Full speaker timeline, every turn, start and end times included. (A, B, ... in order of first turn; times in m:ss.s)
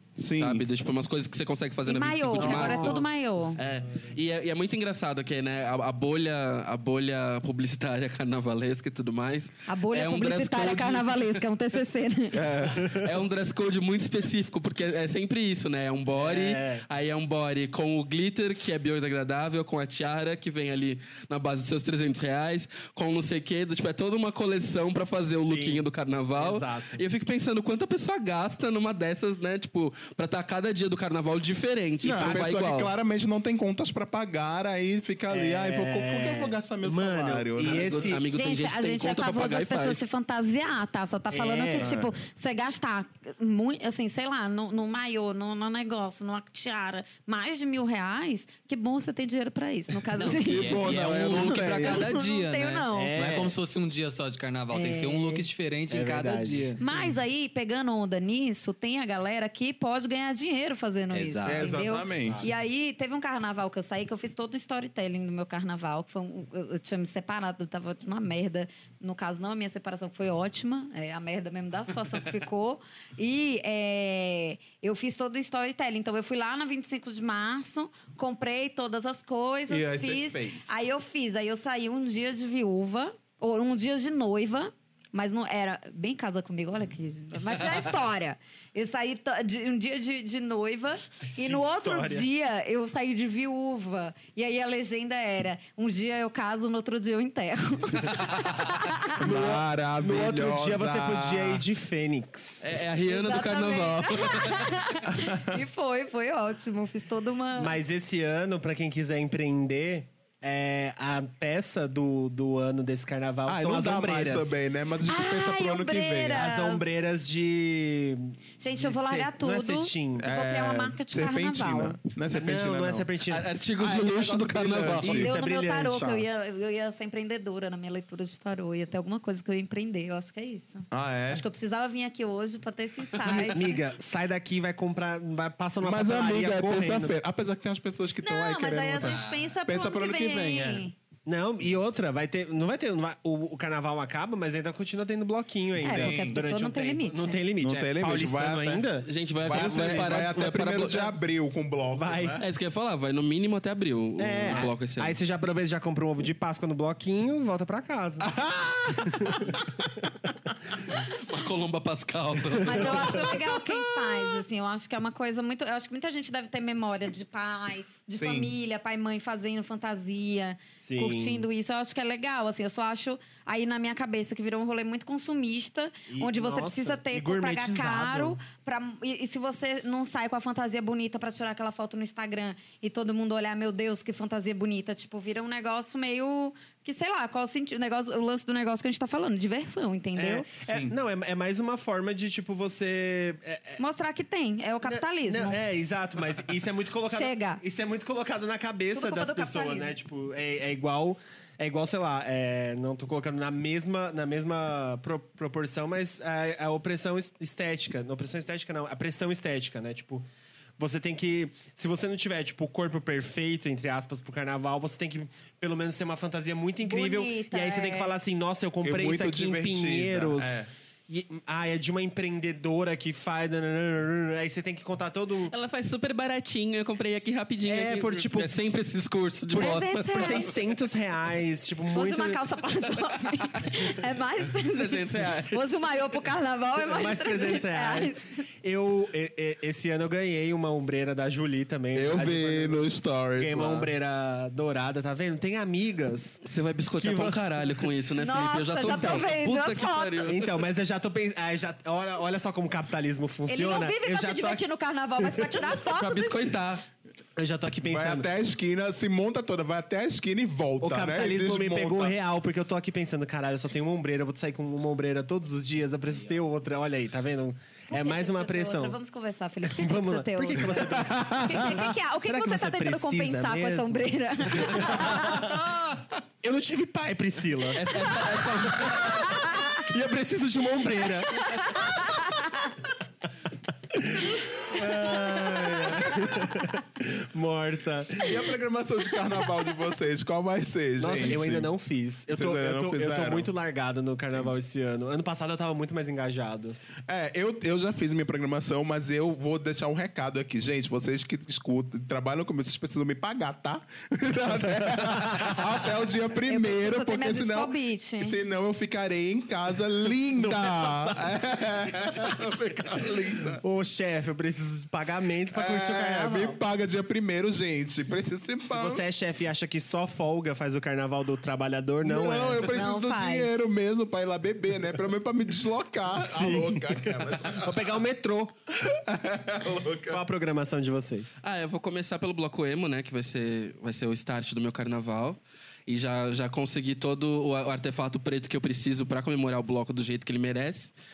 0:00.2-0:00.6 A
0:00.3-0:11.3 B
0:01.8-0:03.6 C
0:02.4-0:03.0 A
0:02.6-0:03.8 D
0:09.7-0:12.4 C
0:12.3-0:12.9 A
0:12.8-0:13.0 D
0:12.8-0:32.9 B
0:16.2-0:16.8 D
0:25.4-0:27.0 D
0:32.0-0:38.1 A
0:35.3-0:38.3 D
0:37.6-0:40.0 B
0:38.3-0:53.2 C
0:41.3-0:41.9 D
0:41.8-0:42.1 A
0:50.2-0:56.8 E
0:50.2-0:52.1 A
0:52.9-0:53.6 D
0:54.7-0:55.4 C
0:55.9-0:57.1 D
0:56.8-1:39.2 C
1:01.1-1:01.8 E
1:01.4-1:02.4 A
1:02.2-1:02.5 D
1:19.7-1:20.7 A
1:31.3-1:32.3 D
1:39.2-1:41.6 A
1:39.2-1:42.6 D
1:42.6-1:44.8 B
1:43.0-1:47.8 C
1:45.1-1:45.6 A
1:47.6-1:54.6 D
1:53.5-1:56.4 A
1:55.0-1:56.9 C
1:56.3-2:00.3 D
1:58.6-2:02.0 C
2:00.2-2:03.1 A
2:02.3-2:03.5 D
2:03.3-2:05.2 B
2:03.8-2:05.3 A
2:05.0-2:06.2 D
2:05.1-2:13.8 C
2:10.9-2:11.4 A
2:13.2-2:17.1 D
2:13.3-2:13.6 B
2:15.8-2:20.9 A
2:18.2-2:20.9 C
2:19.0-2:19.5 E
2:21.3-2:30.3 D
2:25.8-2:26.4 A
2:25.8-2:27.4 C
2:27.6-2:28.9 A
2:29.0-2:31.1 B
2:29.4-2:32.4 A
2:31.9-2:32.4 D
2:32.4-2:35.2 B
2:34.2-2:38.3 D
2:38.2-2:40.4 A
2:39.0-2:39.5 D
2:40.9-2:43.3 B
2:42.6-2:43.2 D
2:42.6-3:10.5 C
2:48.2-2:48.5 A
2:50.8-2:51.4 D
2:56.1-2:58.4 D
3:10.2-3:13.8 D
3:10.6-3:10.9 A
3:13.8-3:15.6 C
3:14.8-3:30.2 D
3:17.1-3:17.6 C
3:18.9-3:20.0 C
3:30.8-3:45.5 D
3:36.8-3:38.2 C
3:38.8-3:40.7 A
3:45.5-3:50.6 B
3:47.6-3:48.5 D
3:49.6-3:50.5 C
3:50.1-3:52.4 D
3:51.9-3:58.4 C
3:54.6-3:55.6 B
3:56.8-4:06.4 D
4:01.9-4:03.9 A
4:06.4-4:10.5 B
4:07.0-4:07.9 D
4:08.2-4:10.3 C
4:10.2-4:14.6 D
4:13.5-4:16.4 C
4:15.2-4:15.7 D
4:15.9-4:16.8 B
4:17.4-4:18.3 D
4:17.9-4:22.2 A
4:20.8-4:29.0 D
4:27.9-4:35.5 C
4:29.6-4:35.6 D
4:31.0-4:31.8 A
4:35.0-4:36.1 A
4:36.4-4:39.2 D
4:37.7-4:39.3 B
4:39.0-4:39.8 C
4:39.8-4:41.8 D
4:41.3-4:42.7 C
4:43.9-4:48.6 D
4:48.2-4:51.7 A
4:51.0-4:56.8 D
4:52.3-4:53.5 A
4:57.1-5:13.6 A
5:05.0-5:05.7 D
5:06.4-5:08.4 C
5:10.3-5:11.3 D
5:13.5-5:16.6 D
5:15.5-5:19.0 A
5:18.6-5:22.7 D
5:22.0-5:27.9 A
5:22.6-5:23.8 C
5:26.2-5:28.5 D
5:28.8-5:30.2 A
5:30.1-5:31.4 D
5:31.4-5:40.9 B